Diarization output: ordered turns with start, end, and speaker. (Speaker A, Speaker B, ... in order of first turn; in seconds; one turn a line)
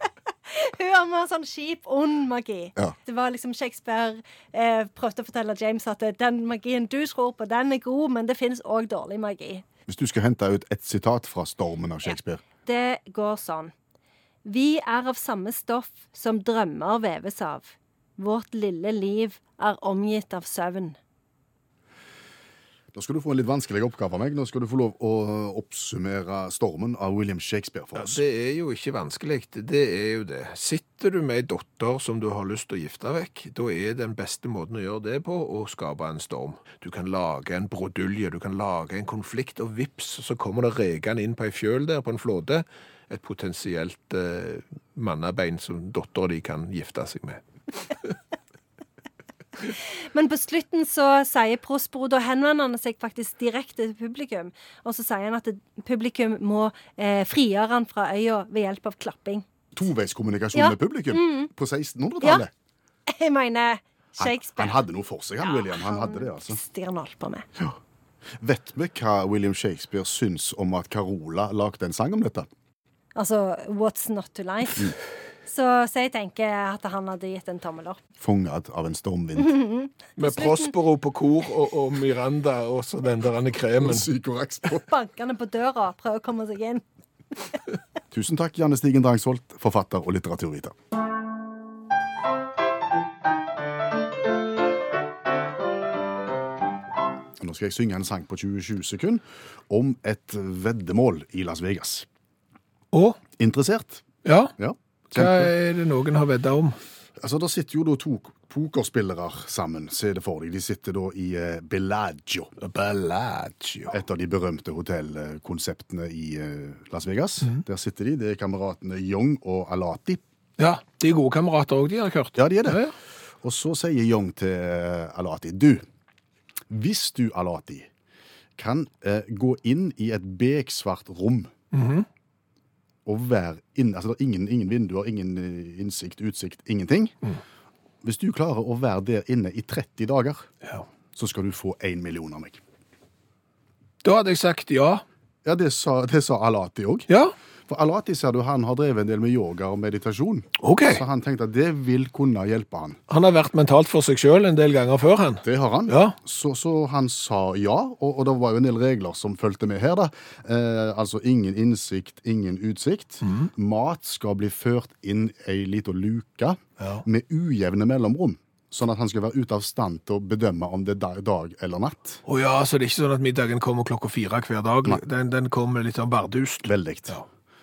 Speaker A: 0.5-9.6
Speaker B: 9.9-12.4
Speaker A: 12.1-13.7
Speaker A: 14.4-21.0
Speaker B: 22.9-28.2
Speaker C: 28.0-47.9
Speaker A: 50.0-59.5
Speaker B: 59.8-62.5
Speaker A: 60.5-61.5
Speaker A: 63.1-64.8
Speaker B: 64.2-66.6
Speaker A: 65.4-67.5
Speaker B: 68.4-72.5
Speaker A: 73.2-75.0
Speaker A: 75.5-78.0
Speaker B: 78.2-79.6
Speaker A: 79.4-80.7
Speaker C: 80.2-84.1
Speaker B: 83.8-84.8
Speaker A: 84.7-86.8
Speaker B: 88.1-90.8
Speaker B: 97.4-102.1
Speaker C: 102.9-103.2
Speaker B: 103.4-104.0
Speaker C: 104.2-104.5
Speaker B: 104.6-105.5
Speaker C: 105.1-106.8
Speaker B: 107.2-112.5
Speaker C: 112.6-114.0
Speaker B: 113.9-120.2
Speaker C: 120.6-123.0
Speaker B: 122.4-122.8
Speaker B: 123.4-125.8
Speaker B: 126.7-127.9
Speaker B: 128.6-131.5
Speaker C: 131.7-132.1
Speaker B: 133.1-137.2
Speaker B: 138.0-140.5
Speaker B: 141.2-142.6
Speaker C: 144.0-145.0
Speaker B: 145.4-147.1
Speaker C: 147.1-147.3
Speaker B: 147.7-153.0
Speaker C: 150.6-151.0
Speaker C: 153.1-156.2
Speaker B: 155.4-172.2
Speaker C: 163.2-163.5
Speaker C: 166.8-167.0
Speaker C: 172.3-177.2
Speaker B: 176.7-177.2